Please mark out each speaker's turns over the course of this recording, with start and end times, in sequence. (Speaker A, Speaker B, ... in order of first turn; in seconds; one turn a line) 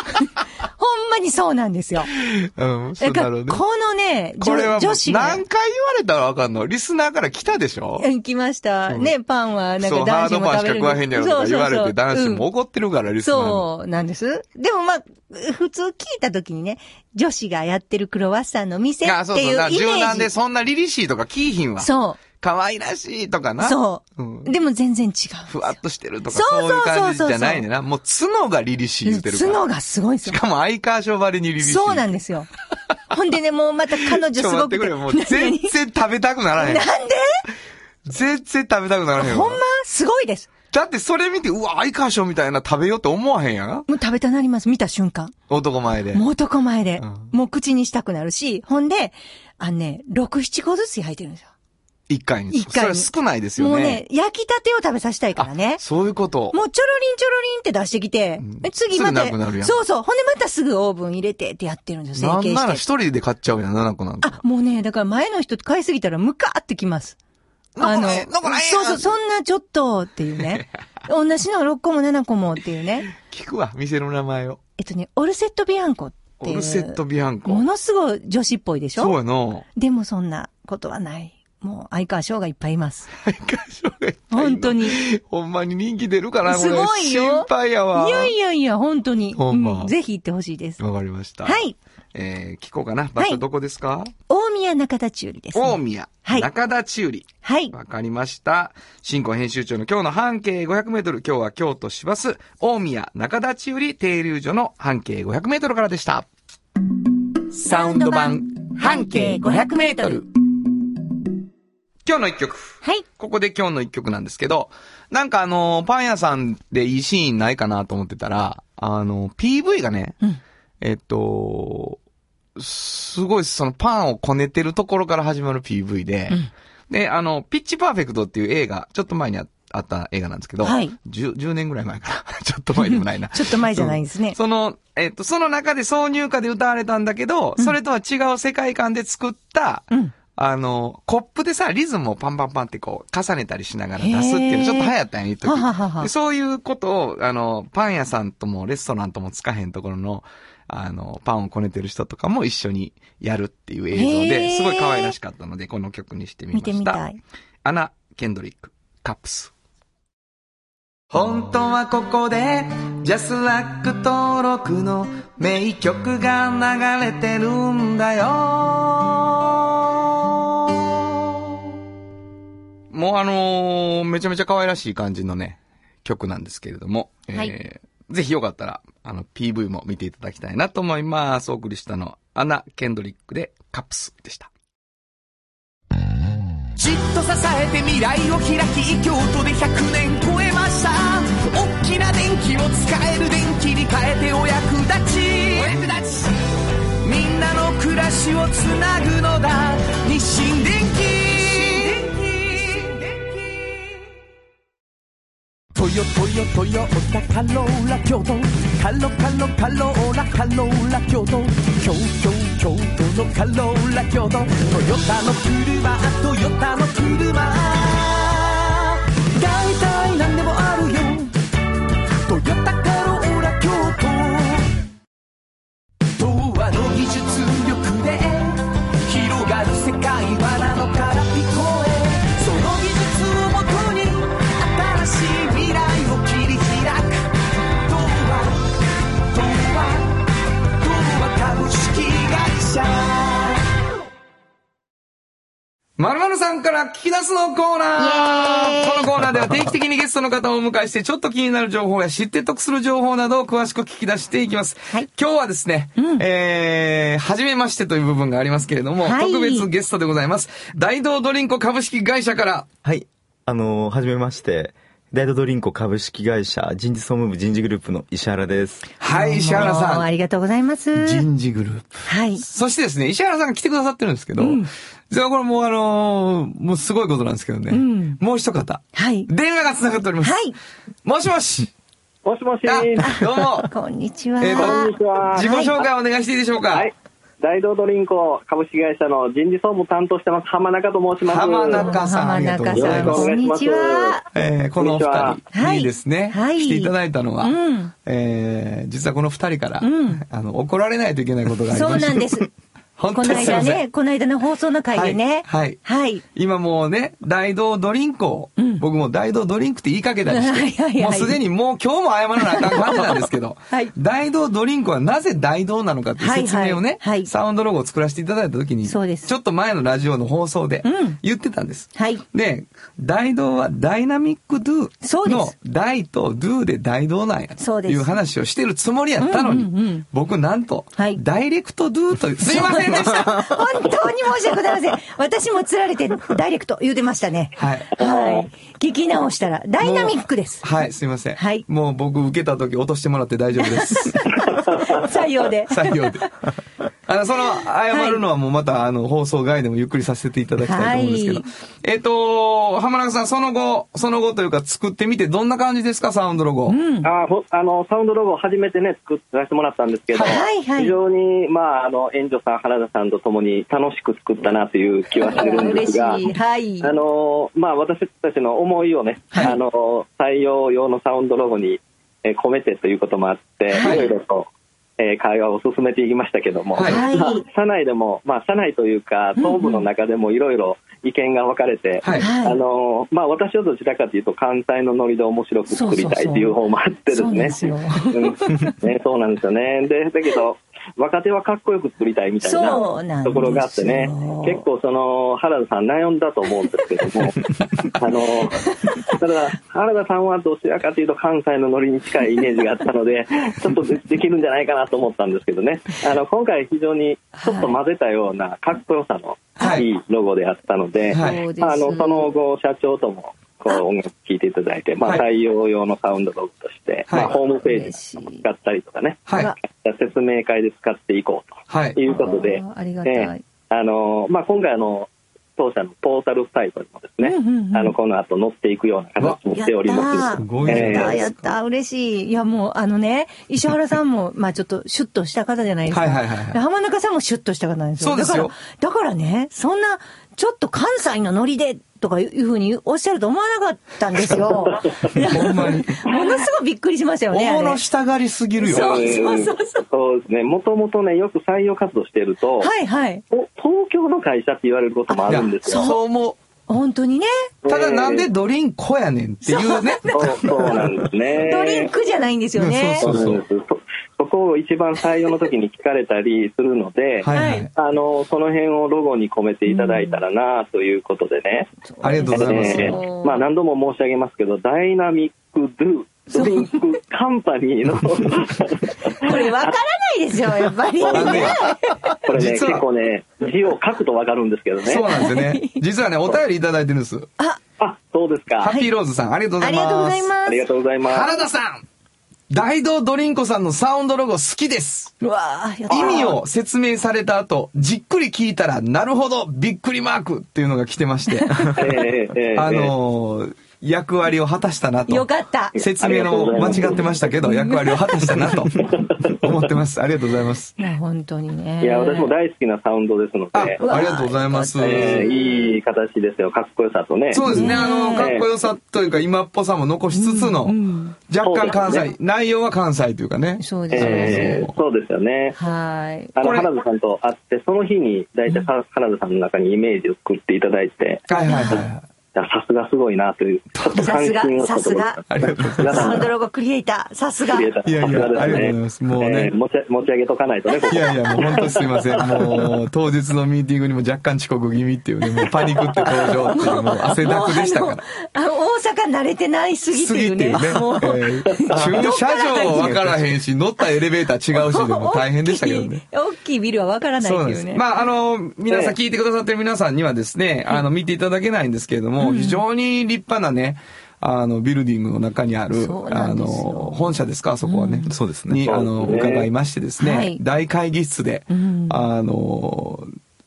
Speaker A: 0.8-2.1
Speaker B: 2.2-3.6
Speaker A: 3.0-5.4
Speaker B: 4.4-8.1
Speaker A: 8.0-12.4
Speaker B: 9.8-13.7
Speaker A: 13.2-20.3
Speaker B: 19.1-24.5
Speaker A: 21.8-22.2
Speaker A: 23.6-25.8
Speaker B: 25.5-29.6
Speaker A: 26.3-27.6
Speaker A: 29.1-30.4
Speaker B: 30.2-32.1
Speaker A: 31.6-32.5
Speaker A: 33.1-35.7
Speaker B: 34.1-36.9
Speaker A: 36.6-37.4
Speaker B: 38.1-39.6
Speaker A: 39.2-40.5
Speaker B: 40.7-43.9
Speaker A: 43.9-45.3
Speaker B: 45.5-46.2
Speaker A: 46.1-51.5
Speaker B: 47.0-47.3
Speaker B: 52.1-54.0
Speaker A: 52.5-55.8
Speaker B: 55.4-56.6
Speaker A: 56.5-62.8
Speaker B: 58.4-59.8
Speaker B: 62.2-64.4
Speaker A: 64.2-67.2
Speaker B: 67.8-69.1
Speaker A: 67.8-73.1
Speaker B: 73.2-74.6
Speaker A: 74.8-79.2
Speaker B: 76.4-77.7
Speaker B: 79.0-79.7
Speaker A: 79.8-83.1
Speaker B: 83.2-88.3
Speaker A: 84.3-85.1
Speaker A: 86.5-90.8
Speaker B: 89.4-89.9
Speaker B: 90.8-91.6
Speaker A: 91.5-91.8
Speaker B: 92.1-94.1
Speaker A: 94.3-96.5
Speaker B: 95.5-106.3
Speaker A: 97.4-97.7
Speaker B: 107.5-110.3
Speaker A: 107.7-110.2
Speaker B: 112.1-120.2
Speaker B: 120.8-122.0
Speaker B: 122.6-126.4
Speaker B: 126.9-157.0
Speaker A: 130.6-131.0
Speaker A: 132.8-134.4
Speaker A: 144.0-144.9
Speaker A: 145.4-146.1
Speaker A: 153.9-155.1
Speaker A: 156.5-157.2
Speaker B: 157.6-159.5
Speaker B: 161.1-170.3
Speaker B: 172.9-184.5
Speaker C: 186.8-196.3
Speaker C: 197.0-203.7
Speaker C: 205.7-221.4
Speaker C: 222.2-224.7
Speaker C: 226.2-238.6
Speaker C: 239.3-240.2
Speaker C: 240.8-243.6
Speaker B: 246.0-262.7
Speaker A: 248.0-249.1
Speaker A: 256.0-256.2
Speaker A: 259.0-259.7
Speaker D: 262.8-268.9
Speaker B: 269.0-270.1
Speaker A: 269.1-271.2
Speaker B: 270.9-280.4
Speaker A: 272.1-272.4
Speaker A: 274.4-274.7
Speaker A: 277.7-278.2
Speaker A: 278.9-279.3
Speaker A: 280.2-280.6
Speaker B: 281.1-281.7
Speaker E: 282.2-283.2
Speaker B: 282.7-283.7
Speaker A: 283.0-285.8
Speaker B: 284.4-286.9
Speaker E: 284.5-285.9
Speaker E: 286.7-292.0
Speaker B: 291.2-293.3
Speaker A: 291.7-294.2
Speaker E: 292.7-294.2
Speaker B: 294.3-302.3
Speaker E: 294.8-295.4
Speaker A: 295.5-297.9
Speaker A: 299.8-300.2
Speaker A: 301.7-302.5
Speaker B: 303.0-303.8
Speaker A: 303.1-306.2
Speaker B: 304.9-333.6
Speaker A: 308.6-308.8
Speaker A: 310.3-311.4
Speaker A: 312.4-313.9
Speaker A: 316.2-317.3
Speaker A: 318.9-319.3
Speaker A: 320.8-321.2
Speaker A: 321.9-322.2
Speaker A: 325.0-325.5
Speaker A: 327.6-328.1
Speaker A: 329.2-330.1
Speaker A: 331.0-331.2
Speaker A: 332.4-340.6
Speaker B: 337.6-337.9
Speaker E: 338.0-338.5
Speaker B: 339.8-344.4
Speaker A: 341.4-341.6
Speaker A: 343.6-346.3
Speaker E: 344.5-345.0
Speaker B: 345.7-346.4
Speaker B: 347.1-356.8
Speaker A: 347.9-348.2
Speaker A: 350.6-351.5
Speaker A: 356.7-357.1
Speaker E: 357.0-366.2
Speaker A: 360.1-361.0
Speaker A: 365.2-366.9
Speaker E: 366.8-397.4
Speaker A: 373.7-374.0
Speaker B: 373.8-374.1
Speaker B: 376.8-377.0
Speaker A: 376.9-377.4
Speaker A: 379.4-379.8
Speaker B: 382.0-382.3
Speaker A: 382.2-382.6
Speaker A: 385.7-386.5
Speaker A: 387.1-388.7
Speaker A: 392.4-394.6
Speaker E: 398.0-431.2
Speaker A: 398.6-399.0
Speaker A: 407.4-407.8
Speaker B: 409.6-409.9
Speaker A: 411.1-412.3
Speaker B: 411.1-411.4
Speaker B: 417.1-417.4
Speaker A: 417.5-418.4
Speaker B: 419.3-419.5
Speaker A: 419.3-419.6
Speaker B: 421.7-422.0
Speaker A: 422.1-423.4
Speaker A: 427.2-427.9
Speaker A: 429.5-447.8
Speaker B: 430.4-431.5
Speaker B: 435.9-436.6
Speaker B: 438.0-438.5
Speaker E: 444.8-445.2
Speaker B: 445.1-446.0
Speaker B: 447.3-449.2
Speaker A: 448.6-449.9
Speaker E: 448.7-452.7
Speaker A: 452.6-453.2
Speaker E: 453.3-455.9
Speaker A: 455.1-456.0
Speaker B: 455.3-456.4
Speaker A: 456.7-457.5
Speaker E: 457.6-458.3
Speaker B: 457.7-460.9
Speaker A: 459.4-460.7
Speaker E: 460.1-461.9
Speaker A: 461.4-463.1
Speaker B: 462.6-463.4
Speaker E: 463.0-471.7
Speaker B: 467.2-467.7
Speaker A: 467.3-467.7
Speaker A: 469.7-470.2
Speaker A: 471.9-473.4
Speaker B: 472.0-473.0
Speaker E: 472.3-479.8
Speaker A: 476.3-476.8
Speaker A: 479.2-482.1
Speaker E: 481.0-481.6
Speaker B: 481.1-481.7
Speaker E: 482.2-485.1
Speaker B: 482.3-482.9
Speaker B: 484.8-487.3
Speaker A: 485.1-485.8
Speaker E: 487.8-488.7
Speaker B: 488.6-490.3
Speaker A: 488.6-488.9
Speaker A: 489.6-490.7
Speaker E: 490.5-491.4
Speaker B: 491.1-491.8
Speaker B: 492.5-495.1
Speaker A: 495.2-496.4
Speaker B: 495.9-502.0
Speaker E: 495.9-496.3
Speaker A: 501.3-501.8
Speaker E: 501.8-502.9
Speaker B: 502.6-505.3
Speaker A: 505.1-505.8
Speaker E: 505.8-507.1
Speaker B: 505.8-510.7
Speaker A: 506.6-508.0
Speaker E: 508.8-509.6
Speaker A: 510.8-512.3
Speaker E: 511.8-514.0
Speaker B: 513.5-515.2
Speaker A: 513.8-515.4
Speaker E: 514.8-518.5
Speaker B: 517.3-520.8
Speaker A: 517.5-518.4
Speaker A: 520.1-521.2
Speaker B: 521.3-524.7
Speaker E: 521.4-522.1
Speaker A: 523.6-524.6
Speaker E: 523.9-525.6
Speaker A: 525.6-526.4
Speaker E: 526.4-531.8
Speaker B: 526.4-526.7
Speaker B: 531.3-532.0
Speaker A: 531.5-531.9
Speaker E: 532.3-536.3
Speaker A: 533.9-535.2
Speaker B: 535.3-536.2
Speaker A: 535.9-537.7
Speaker E: 537.5-542.7
Speaker B: 537.9-539.5
Speaker B: 540.9-548.0
Speaker A: 546.0-553.0
Speaker B: 549.9-556.0
Speaker E: 551.6-552.0
Speaker A: 554.5-557.8
Speaker B: 557.2-573.1
Speaker E: 558.7-559.0
Speaker A: 562.2-562.6
Speaker A: 565.7-568.1
Speaker D: 568.1-568.7
Speaker E: 568.6-569.5
Speaker A: 570.0-570.4
Speaker A: 571.5-572.0